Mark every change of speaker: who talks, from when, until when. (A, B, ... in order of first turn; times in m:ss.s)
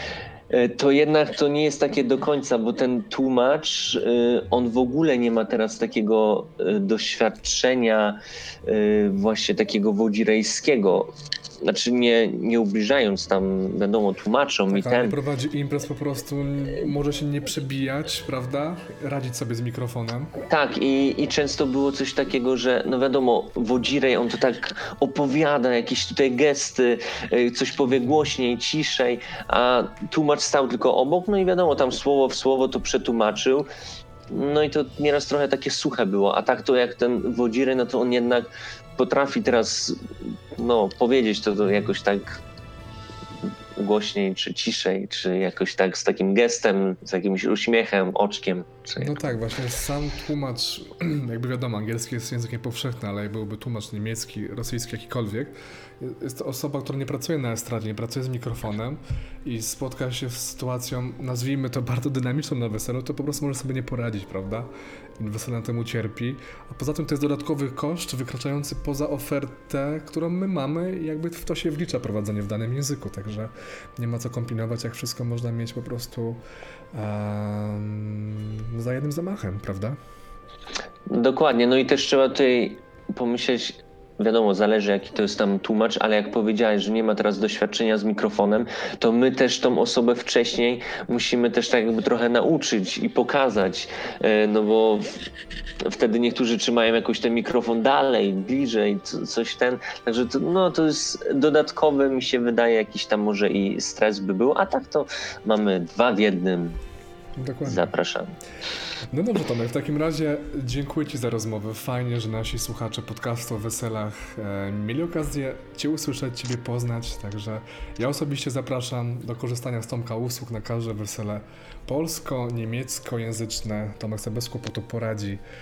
0:00.5-0:15.2 A
0:14.7-0:20.3 B
0:20.4-0:33.7 A
0:34.3-0:42.4 A
0:43.8-0:49.3 A
0:49.0-1:04.7 B
1:05.2-1:16.4 B
1:16.9-1:20.0 B
1:21.1-1:35.2 A
1:35.8-1:46.8 A
1:47.4-1:47.9 B
1:47.6-1:48.3 A
1:49.1-2:05.4 B